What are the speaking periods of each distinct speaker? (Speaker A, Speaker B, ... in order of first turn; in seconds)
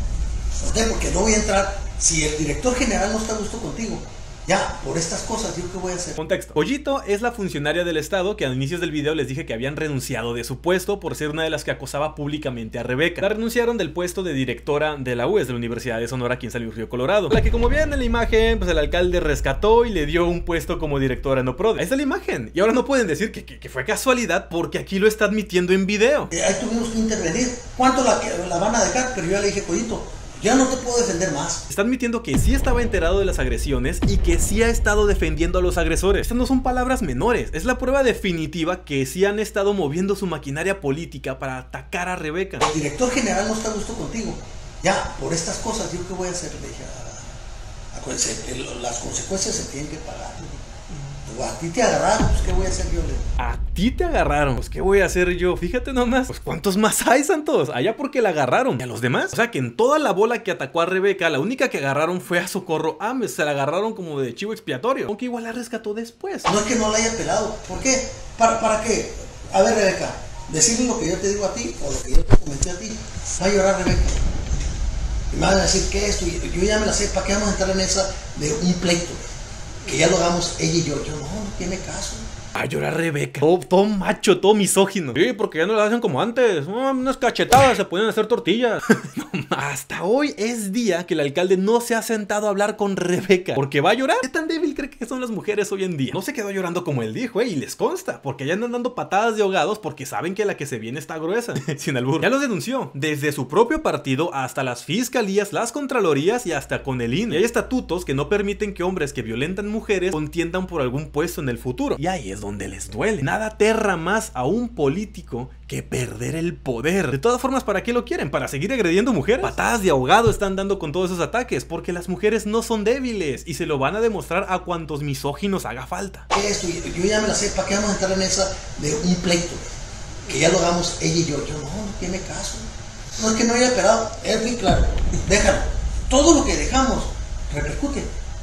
Speaker A: 0.6-6.2, 26.3-31.6, 42.6-47.3, 47.9-53.2, 66.5-74.2, 75.3-79.2, 79.8-82.2, 126.3-129.6, 130.2-132.6, 133.2-138.1
Speaker B: 6.2-26.3, 31.7-42.6, 53.4-66.5, 82.5-126.2